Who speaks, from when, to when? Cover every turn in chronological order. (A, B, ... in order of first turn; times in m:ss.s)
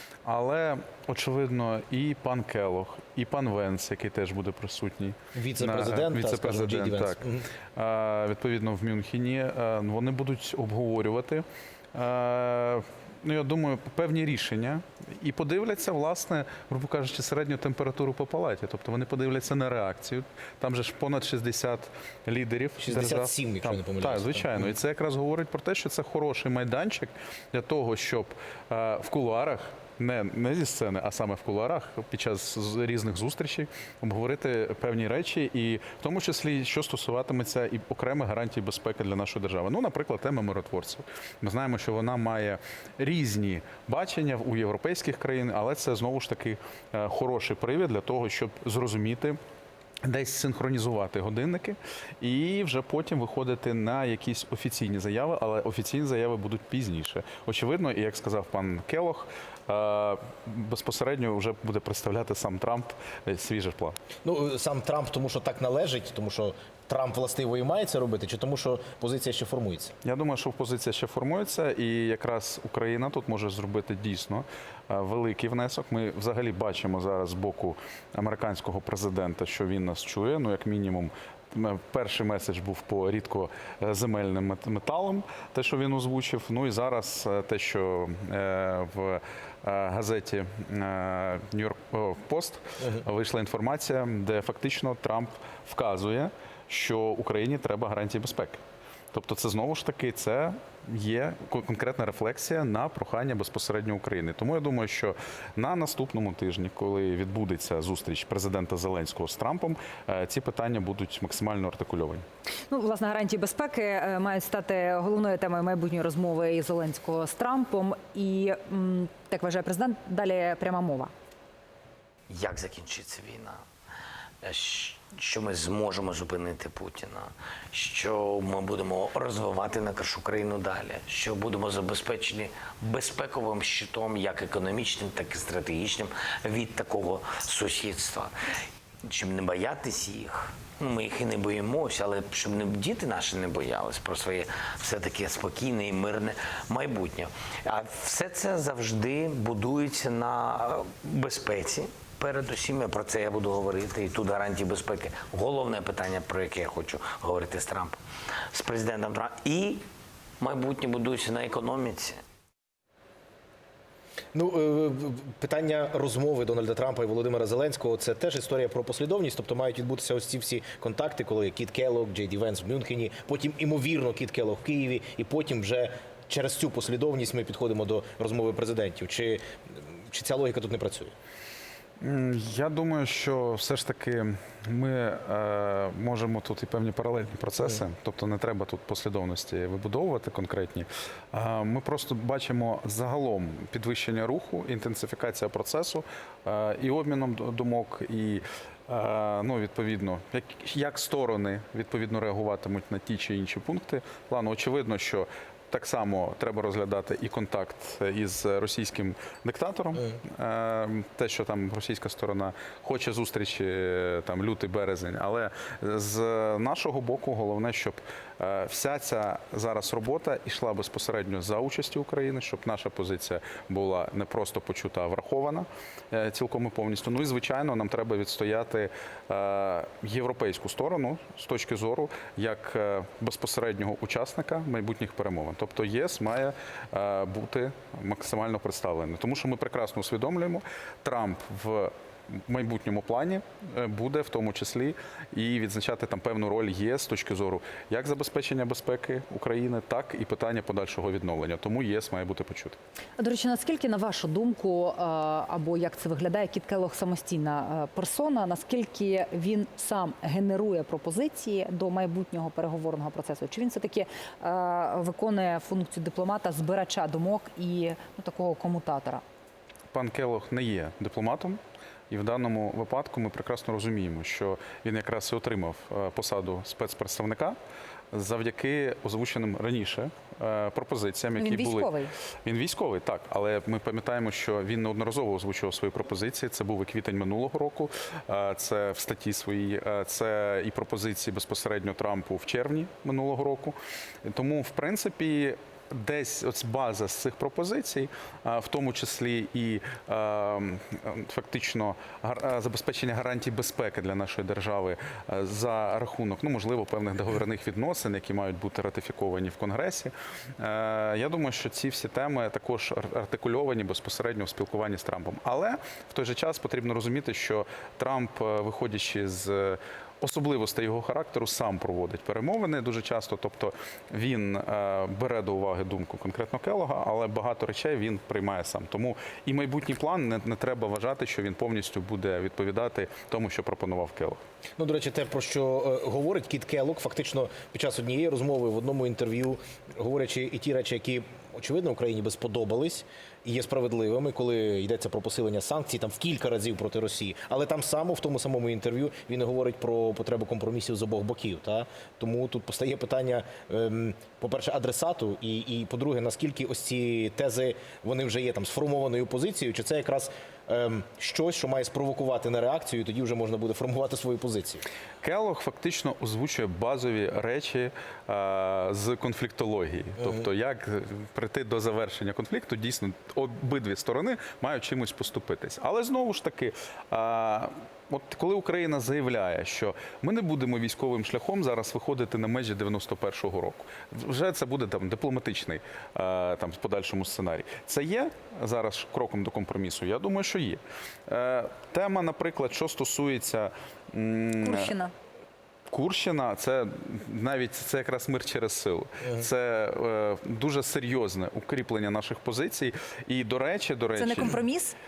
0:00.2-0:07.2 A
0:05.3-0:07.5 B
0:07.8-0:49.4 A
0:22.8-0:24.7 B
0:50.0-1:04.0 A
1:04.2-1:09.9 B
1:10.0-1:38.6 A
1:32.8-1:33.0 B
1:39.1-1:52.2 A
1:52.7-2:01.1 C
2:02.3-2:03.6 D
2:04.4-2:18.3 D
2:19.0-2:39.8 D
2:40.4-2:42.2 D
2:44.3-3:01.1 B
3:02.0-4:12.8 A
4:13.2-4:29.2 C
4:29.9-4:31.6 A
4:32.1-4:37.6 A
4:38.1-4:41.9 A
4:41.4-4:42.1 C
4:42.4-5:34.4 A
5:34.8-6:04.8 B
6:05.2-6:34.9 A
6:34.6-6:35.1 C
6:35.9-6:44.6 A
6:44.2-6:45.0 C